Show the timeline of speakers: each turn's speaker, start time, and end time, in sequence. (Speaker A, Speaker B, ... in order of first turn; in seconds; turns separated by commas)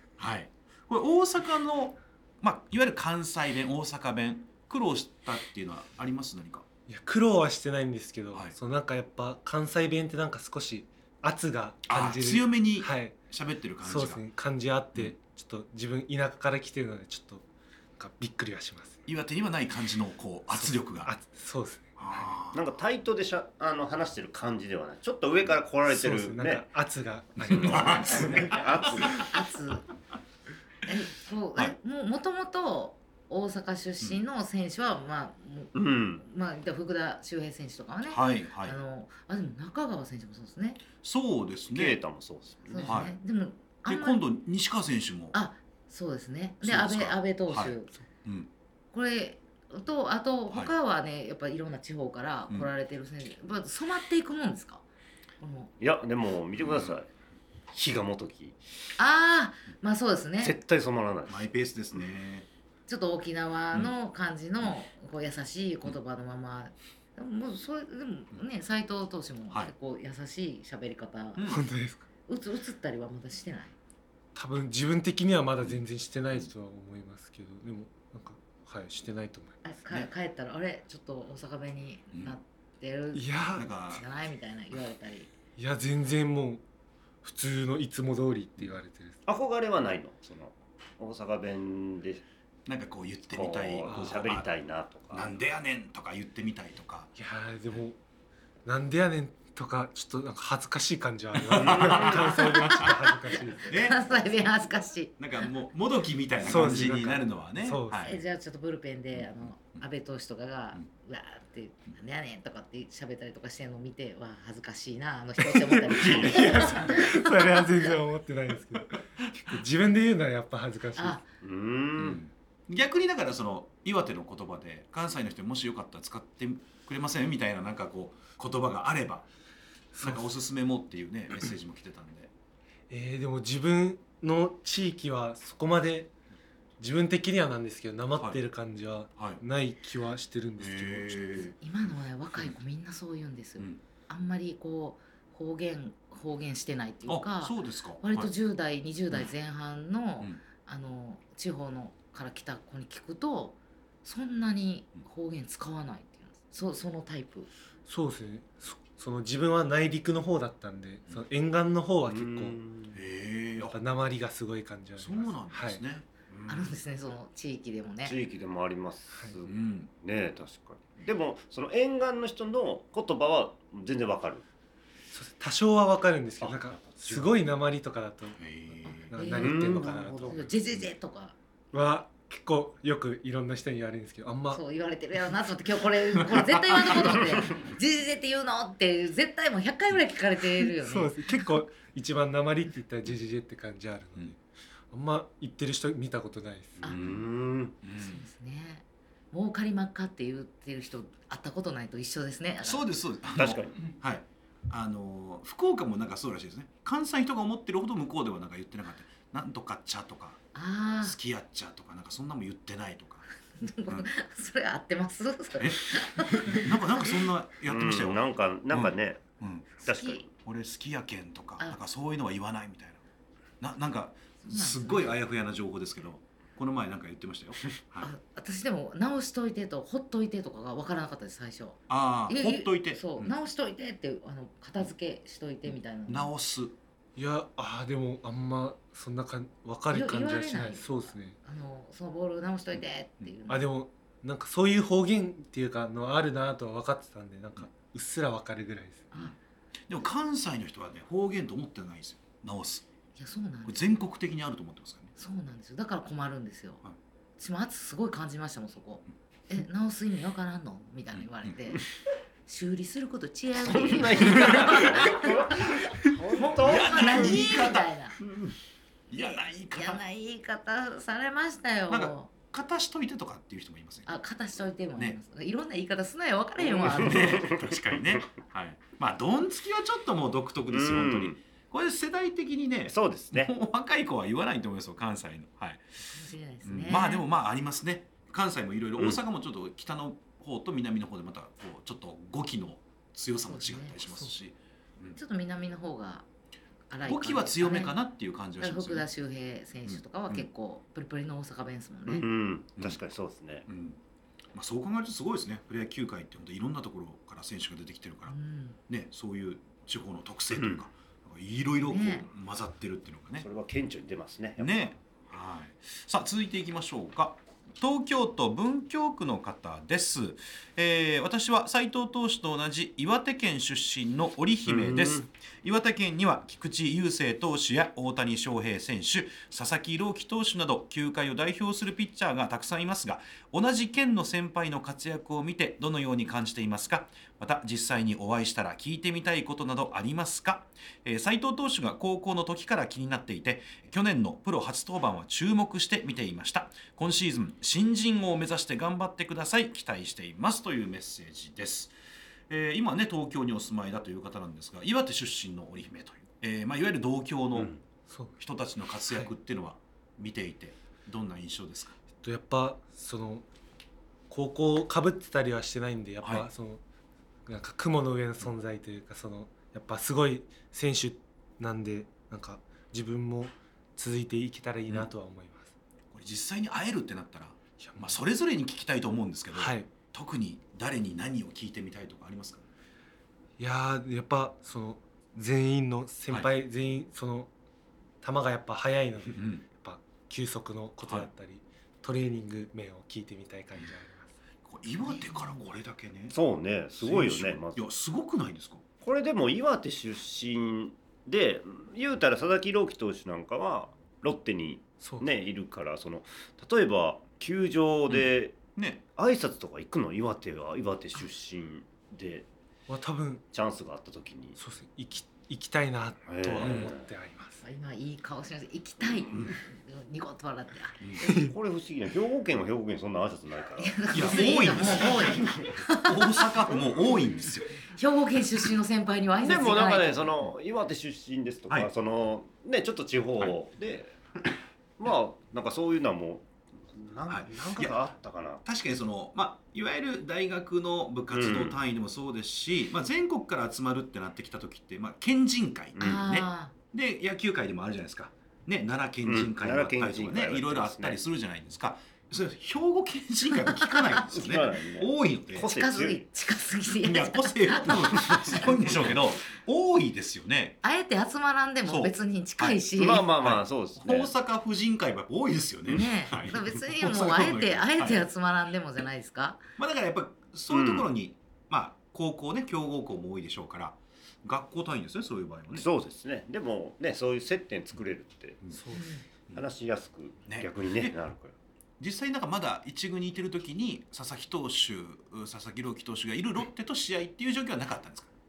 Speaker A: 0.2-6.7, Speaker B: 6.9-13.2, Speaker A: 11.9-14.2, Speaker B: 13.8-17.4, Speaker B: 18.0-19.0, Speaker A: 19.1-21.1, Speaker B: 20.5-22.3, Speaker A: 22.0-22.6, Speaker C: 22.5-26.6, Speaker B: 25.9-28.2, Speaker C: 27.4-29.3, Speaker A: 27.4-29.3, Speaker D: 29.0-29.9, Speaker D: 30.9-40.8, Speaker C: 35.7-36.2, Speaker A: 38.1-38.8, Speaker A: 41.0-42.0, Speaker C: 41.7-43.0, Speaker D: 42.7-44.2, Speaker A: 42.9-43.2, Speaker A: 43.9-45.4, Speaker D: 45.3-47.9, Speaker A: 46.6-48.5, Speaker D: 48.9-54.8, Speaker D: 55.4-55.7, Speaker C: 55.8-57.1, Speaker A: 56.6-57.0, Speaker C: 57.7-58.6, Speaker D: 59.0-60.5, Speaker C: 60.4-61.5, Speaker A: 61.3-62.5, Speaker D: 62.9-71.4, Speaker A: 71.4-71.6, Speaker B: 71.5-72.1, Speaker D: 72.3-73.8, Speaker B: 74.3-79.6, Speaker D: 79.6-83.3, Speaker B: 83.1-83.7, Speaker A: 83.5-84.0, Speaker D: 83.9-85.3, Speaker B: 85.6-86.6, Speaker B: 87.2-89.2, Speaker C: 89.3-92.2, Speaker A: 92.7-94.5, Speaker C: 93.3-95.3, Speaker B: 93.9-94.2, Speaker A: 95.1-97.1, Speaker B: 97.2-98.0, Speaker B: 98.7-103.7, Speaker A: 101.4-102.9, Speaker C: 101.6-102.3, Speaker D: 102.4-105.2, Speaker A: 103.7-104.0, Speaker A: 105.2-108.2, Speaker B: 106.4-108.1, Speaker D: 108.0-117.9, Speaker A: 109.2-109.8, Speaker B: 115.6-121.2, Speaker C: 116.0-116.6, Speaker D: 121.0-121.2, Speaker C: 121.4-122.2, Speaker A: 122.0-129.3, Speaker B: 129.9-130.3, Speaker A: 130.0-132.3, Speaker B: 132.9-136.1, Speaker B: 136.8-141.6, Speaker A: 140.6-141.5, Speaker D: 141.6-157.5, Speaker A: 147.1-148.3, Speaker B: 157.9-162.6, Speaker C: 162.1-163.0, Speaker A: 162.9-163.8, Speaker B: 163.6-165.8, Speaker A: 165.0-166.7, Speaker D: 166.5-168.2, Speaker C: 168.1-174.4, Speaker A: 169.4-169.9, Speaker B: 175.1-180.4, Speaker C: 176.4-177.2, Speaker A: 178.4-179.1, Speaker D: 179.1-181.3, Speaker C: 179.4-180.5, Speaker B: 181.7-184.6, Speaker D: 184.5-191.2, Speaker A: 186.3-187.0, Speaker B: 190.8-194.4, Speaker B: 194.9-196.8, Speaker C: 196.8-197.8, Speaker A: 196.8-197.2, Speaker A: 197.8-198.2, Speaker D: 198.0-202.8, Speaker A: 202.6-210.4, Speaker C: 203.4-203.8, Speaker D: 210.5-211.2, Speaker A: 211.0-213.3, Speaker D: 213.6-216.8, Speaker A: 215.6-219.8, Speaker C: 217.7-219.2, Speaker C: 219.8-220.3, Speaker D: 219.9-220.2, Speaker A: 220.3-223.0, Speaker A: 223.6-228.1, Speaker D: 224.5-225.1, Speaker D: 228.0-236.3, Speaker A: 231.9-233.3, Speaker A: 236.1-236.7, Speaker B: 237.2-241.4, Speaker D: 239.9-240.9, Speaker D: 241.4-243.6, Speaker B: 243.5-249.1, Speaker A: 249.9-252.9, Speaker D: 253.2-254.0, Speaker A: 253.7-255.1, Speaker D: 255.2-256.8, Speaker D: 257.4-261.8, Speaker A: 261.1-261.6, Speaker D: 262.5-265.7, Speaker C: 263.6-267.5, Speaker D: 266.3-268.2, Speaker A: 266.6-267.9, Speaker A: 269.1-270.0, Speaker D: 269.1-272.3, Speaker A: 271.9-274.1, Speaker D: 274.1-277.5, Speaker C: 276.6-277.7, Speaker A: 276.9-285.8, Speaker C: 280.7-281.4, Speaker C: 282.9-283.5, Speaker D: 286.1-287.2, Speaker A: 286.6-295.2, Speaker D: 293.5-294.3, Speaker D: 295.2-296.2, Speaker D: 296.9-297.9, Speaker A: 297.1-299.1, Speaker D: 298.6-302.3, Speaker A: 299.9-300.5, Speaker C: 302.1-303.7, Speaker A: 303.7-304.0, Speaker A: 304.5-308.4, Speaker D: 308.3-308.8, Speaker A: 308.9-313.5, Speaker C: 310.5-310.8, Speaker D: 311.9-312.3, Speaker C: 313.4-314.7, Speaker A: 314.6-351.9, Speaker C: 324.7-325.2, Speaker A: 352.5-357.8, Speaker B: 358.1-358.4, Speaker A: 358.4-362.0, Speaker B: 362.2-363.5, Speaker B: 364.3-366.8, Speaker A: 366.2-366.5, Speaker B: 367.5-375.7, Speaker A: 376.1-382.6, Speaker B: 377.8-378.2, Speaker B: 379.5-379.9, Speaker B: 383.6-387.5, Speaker B: 388.2-394.3, Speaker A: 389.3-389.6, Speaker A: 394.6-396.4, Speaker C: 396.3-397.8, Speaker A: 397.0-398.8, Speaker C: 399.0-408.6, Speaker B: 405.0-405.3, Speaker A: 408.1-409.0, Speaker C: 409.2-412.5, Speaker B: 412.9-413.4, Speaker C: 413.5-414.6, Speaker B: 414.6-417.6, Speaker C: 416.3-417.1, Speaker A: 416.6-416.9, Speaker D: 417.6-421.1, Speaker B: 421.2-421.5, Speaker C: 421.3-425.6, Speaker D: 423.8-426.5, Speaker A: 424.1-427.8, Speaker D: 427.9-430.4, Speaker C: 429.4-434.1, Speaker C: 435.0-438.6, Speaker A: 437.3-438.1, Speaker A: 438.6-455.7, Speaker C: 441.3-441.8, Speaker C: 446.0-446.2, Speaker D: 446.0-446.7, Speaker C: 449.3-451.2, Speaker D: 453.7-454.2, Speaker C: 454.3-456.2, Speaker D: 455.6-458.7, Speaker A: 457.0-460.8, Speaker C: 458.5-459.0, Speaker D: 460.8-463.3, Speaker A: 461.9-462.8, Speaker C: 462.9-464.3, Speaker A: 463.4-468.3, Speaker D: 465.9-469.6, Speaker A: 469.8-475.9, Speaker C: 470.7-471.1, Speaker C: 475.8-478.6, Speaker B: 478.7-479.1, Speaker D: 478.9-479.2, Speaker C: 479.6-481.6, Speaker A: 480.5-481.2, Speaker A: 482.0-488.3